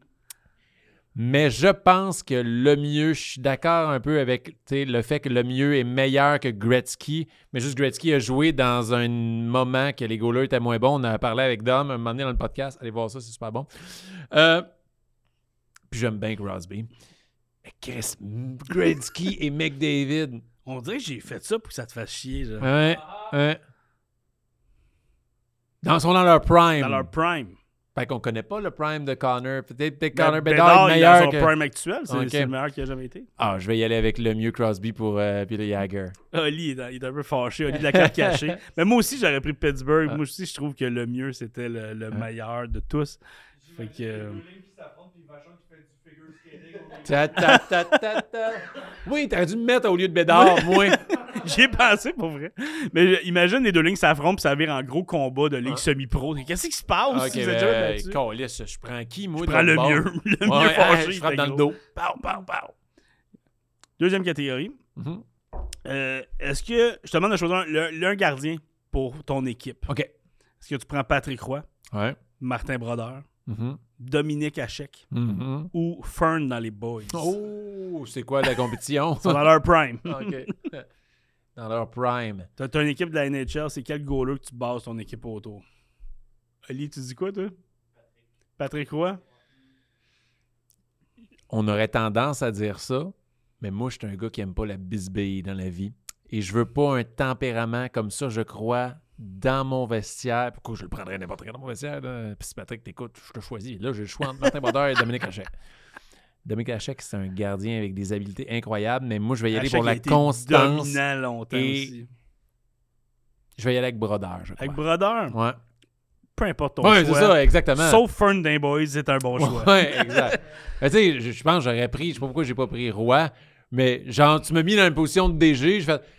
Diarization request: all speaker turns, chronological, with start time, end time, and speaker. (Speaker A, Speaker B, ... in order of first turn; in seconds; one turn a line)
Speaker A: 1.1-14.7
Speaker A: 15.9-16.9
Speaker A: 17.6-20.4
Speaker B: 20.6-22.7
Speaker A: 22.6-23.6
Speaker A: 25.8-27.1
Speaker B: 26.8-27.6
Speaker A: 27.9-31.5
Speaker B: 30.1-33.3
Speaker A: 32.1-32.5
Speaker A: 33.4-36.1
Speaker B: 36.3-44.5
Speaker A: 37.7-38.5
Speaker C: 44.3-47.0
Speaker A: 47.0-51.0
Speaker B: 47.4-48.0
Speaker B: 50.3-58.2
Speaker A: 57.1-62.7
Speaker B: 59.4-61.6
Speaker B: 64.0-64.8
Speaker A: 65.0-65.2
Speaker B: 65.8-69.9
Speaker B: 70.6-71.7
Speaker A: 71.9-72.2
Speaker B: 72.4-73.2
Speaker A: 73.5-73.8
Speaker B: 74.0-75.0
Speaker A: 75.1-75.7
Speaker B: 75.7-77.3
Speaker A: 77.1-79.5
Speaker B: 79.2-80.6
Speaker A: 80.0-80.8
Speaker A: 81.5-82.5
Speaker B: 82.6-85.6
Speaker B: 86.7-87.5
Speaker B: 88.6-89.2
Speaker A: 91.5-105.5
Speaker A: 106.4-111.9
Speaker B: 109.5-112.1
Speaker A: 113.6-114.8
Speaker B: 114.6-115.3
Speaker A: 115.3-115.6
Speaker B: 116.3-120.3
Speaker A: 116.8-118.0
Speaker A: 119.4-126.0